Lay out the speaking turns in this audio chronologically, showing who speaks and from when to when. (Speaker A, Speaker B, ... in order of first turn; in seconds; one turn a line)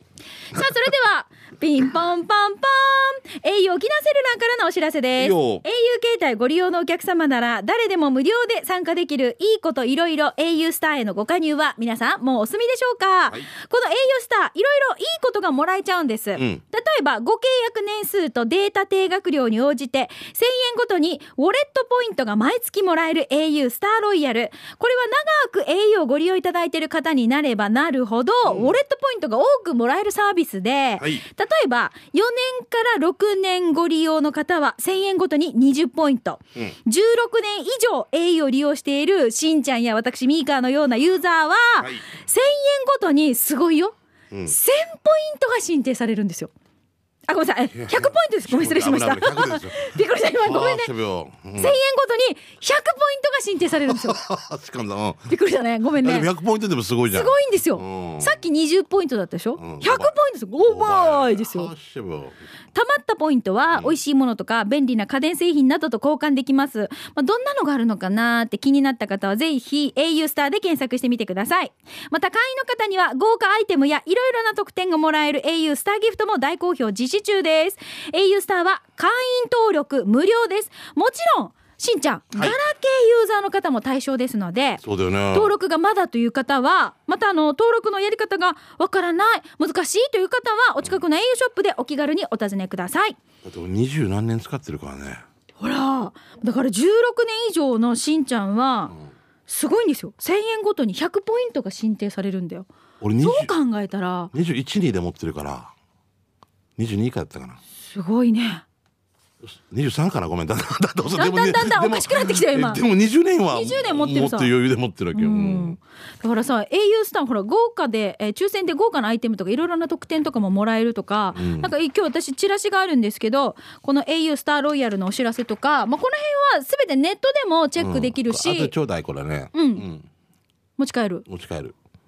Speaker A: 0.5-46.5
Speaker B: 5.2-5.6
Speaker B: 16.4-16.6
Speaker B: 28.4-28.8
Speaker B: 31.0-31.2
Speaker B: 44.3-44.5
Speaker A: 47.3-50.9
Speaker B: 47.7-51.8
Speaker A: 51.5-54.2
Speaker B: 53.9-55.3
Speaker A: 55.3-56.3
Speaker B: 56.0-58.4
Speaker A: 57.1-61.7
Speaker B: 59.6-62.4
Speaker A: 62.7-84.8
Speaker B: 63.7-64.0
Speaker B: 84.8-85.5
Speaker A: 85.3-93.2
Speaker B: 93.4-95.2
Speaker A: 95.6-98.9
Speaker A: 99.5-102.7
Speaker B: 103.0-103.5
Speaker A: 103.2-104.3
Speaker B: 104.3-105.7
Speaker B: 106.8-107.6
Speaker A: 107.8-108.6
Speaker B: 109.4-115.8
Speaker A: 111.1-112.8
Speaker A: 113.5-114.5
Speaker A: 115.1-128.7
Speaker B: 121.3-121.7
Speaker B: 127.8-130.1
Speaker A: 129.5-129.8
Speaker A: 130.8-131.2
Speaker B: 131.3-131.7